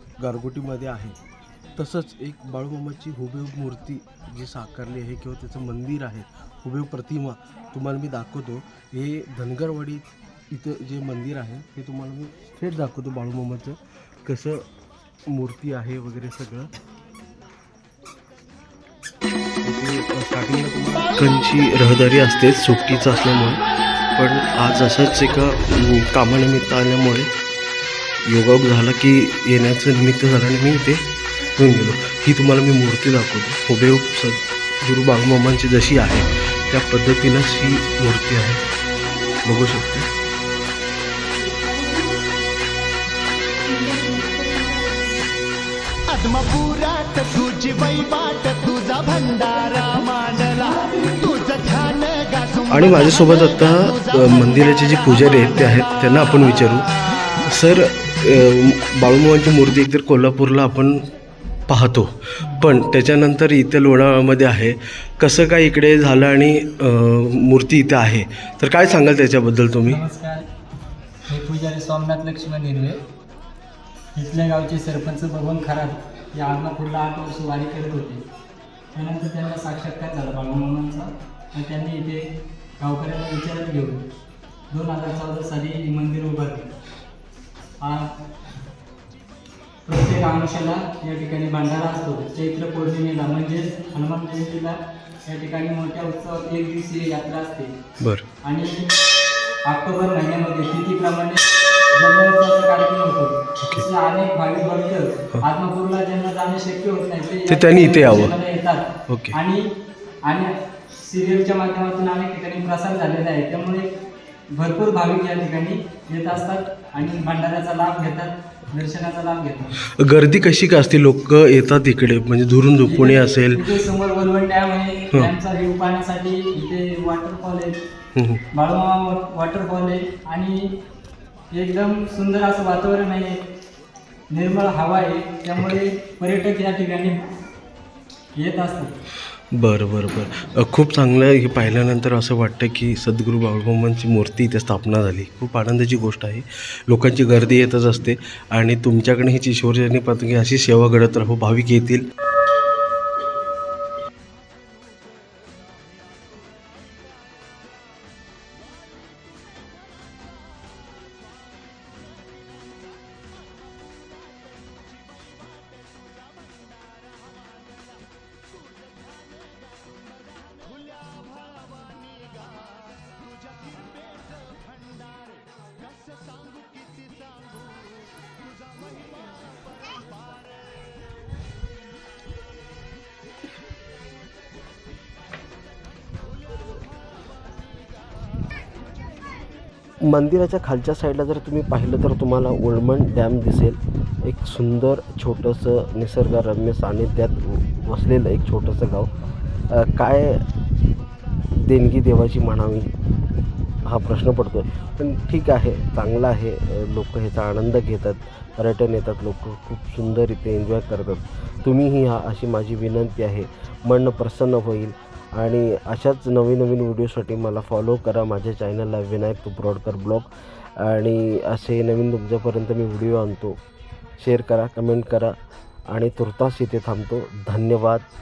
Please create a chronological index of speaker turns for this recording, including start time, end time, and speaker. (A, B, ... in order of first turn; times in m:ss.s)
0:00.2-0:01.2 A
0:01.8-0:14.6 A
0:15.3-0:16.7 A
0:19.6-0:23.6 A
0:24.2-0:27.3 A
0:28.2-0:31.0 A
0:31.6-0:38.6 A
0:39.4-0:40.1 A
0:43.8-0:44.8 B
0:46.1-0:52.6 B
0:52.7-1:01.0 A
1:01.7-1:10.0 A
1:09.9-1:10.4 C
1:11.2-1:13.0 C
1:14.1-1:18.2 C
1:18.9-1:24.1 C
1:24.7-1:26.7 C
1:27.8-1:28.1 C
1:29.8-1:37.7 C
1:38.0-1:38.2 A
1:38.4-1:38.9 C
1:39.7-1:41.4 C
1:41.9-1:49.7 C
1:43.6-1:43.9 A
1:47.4-1:48.4 A
1:49.1-1:49.4 A
1:50.2-1:54.0 C
1:54.5-1:59.8 C
1:59.8-2:03.8 A
2:02.8-2:07.8 C
2:08.1-2:08.4 A
2:08.5-2:10.7 C
2:11.5-2:13.4 C
2:14.3-2:17.3 C
2:18.4-2:19.0 C
2:19.5-2:32.1 A
3:10.0-3:19.1 A
3:19.7-3:20.4 A
3:21.6-3:22.9 A
3:23.8-3:43.6 A
3:44.2-3:45.4 A
3:45.9-3:48.1 A